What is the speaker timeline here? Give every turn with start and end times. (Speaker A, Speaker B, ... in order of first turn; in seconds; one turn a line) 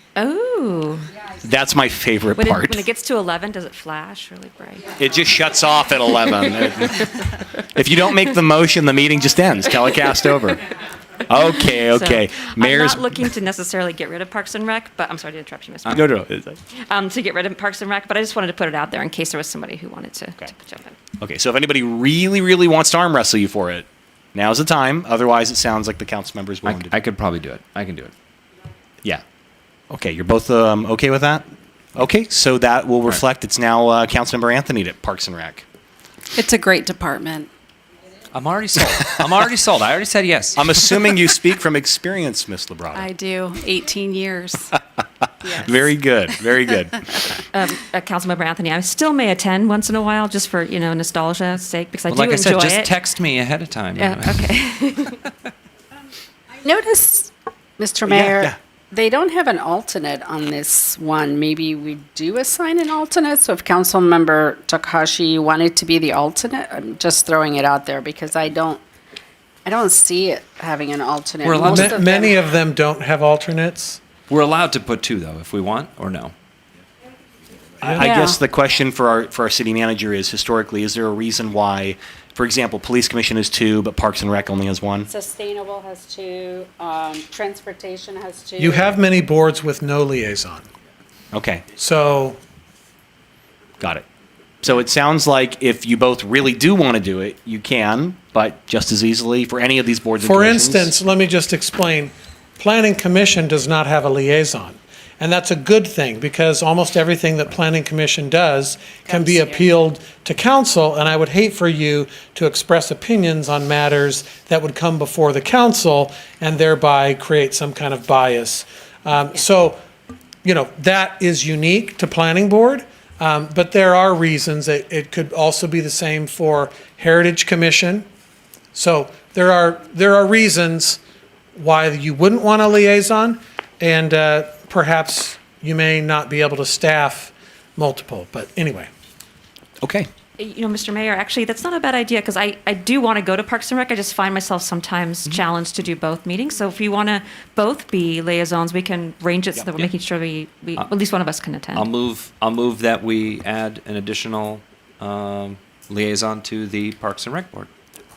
Speaker A: 0.2-1.1
Speaker B: 1.4-2.8
Speaker A: 2.4-5.0
Speaker B: 5.0-10.6
Speaker B: 11.3-13.1
Speaker A: 11.8-16.1
Speaker B: 15.9-16.6
Speaker A: 16.7-21.0
Speaker B: 21.2-26.9
Speaker C: 26.6-28.1
Speaker B: 29.9-35.6
Speaker D: 36.3-37.5
Speaker C: 38.3-41.1
Speaker B: 40.5-43.1
Speaker D: 42.9-44.7
Speaker B: 45.4-47.2
Speaker A: 47.5-52.9
Speaker C: 52.1-54.6
Speaker A: 54.0-55.2
Speaker D: 56.6-68.8
Speaker B: 58.1-58.5
Speaker D: 69.6-72.4
Speaker C: 71.4-72.0
Speaker E: 71.6-74.0
Speaker C: 74.3-76.3
Speaker B: 77.8-85.1
Speaker D: 78.0-78.4
Speaker D: 85.1-89.0
Speaker E: 88.6-90.7
Speaker B: 91.3-91.7
Speaker E: 91.8-92.4
Speaker B: 94.6-100.9
Speaker E: 100.2-119.8
Speaker D: 109.0-109.8
Speaker E: 120.4-128.0
Speaker E: 128.7-131.0
Speaker E: 131.5-138.9
Speaker B: 139.8-140.1
Speaker A: 140.4-151.8
Speaker C: 151.7-157.7